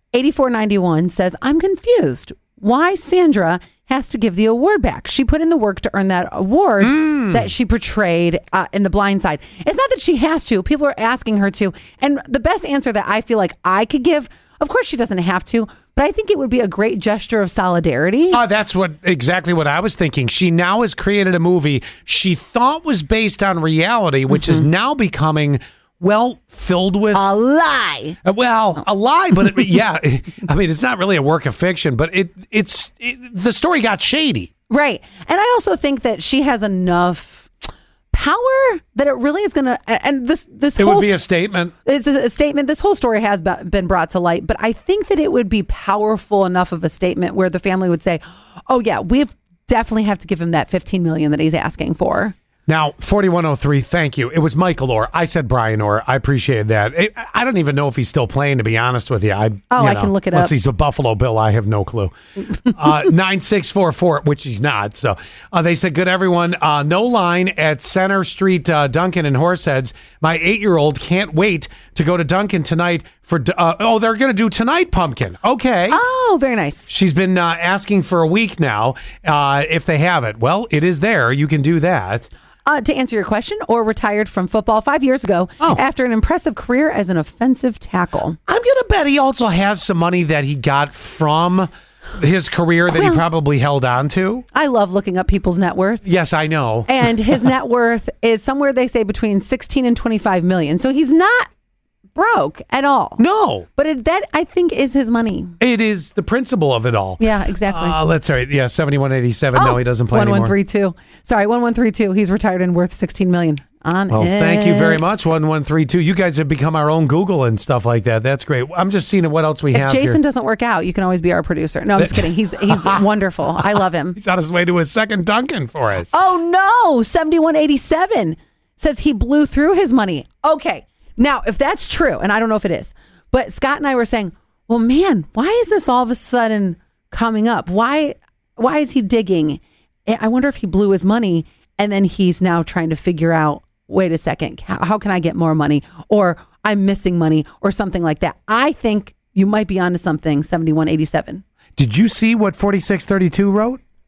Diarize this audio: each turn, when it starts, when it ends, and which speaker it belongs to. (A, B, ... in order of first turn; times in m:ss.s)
0:00.1-0:18.4 A
0:06.8-0:07.4 B
0:18.3-0:27.2 B
0:27.1-0:28.2 A
0:28.2-0:34.5 B
0:34.7-0:37.5 A
0:38.1-0:41.2 A
0:40.8-0:41.7 B
0:41.8-0:52.3 A
0:52.7-1:16.0 B
0:59.7-1:00.5 A
1:15.9-1:16.9 A
1:16.9-1:22.3 B
1:22.6-1:28.4 A
1:28.5-1:34.4 B
1:32.9-1:33.2 A
1:34.5-1:36.0 A
1:36.0-1:37.5 B
1:36.9-1:41.5 A
1:42.1-1:43.2 A
1:43.2-1:43.7 B
1:43.7-1:45.6 A
1:45.6-1:50.5 B
1:47.2-1:48.0 A
1:49.5-1:55.1 A
1:54.1-2:00.2 B
1:59.7-2:04.2 A
2:02.0-2:03.0 B
2:03.6-2:06.2 B
2:06.1-2:31.4 A
2:31.8-2:33.8 B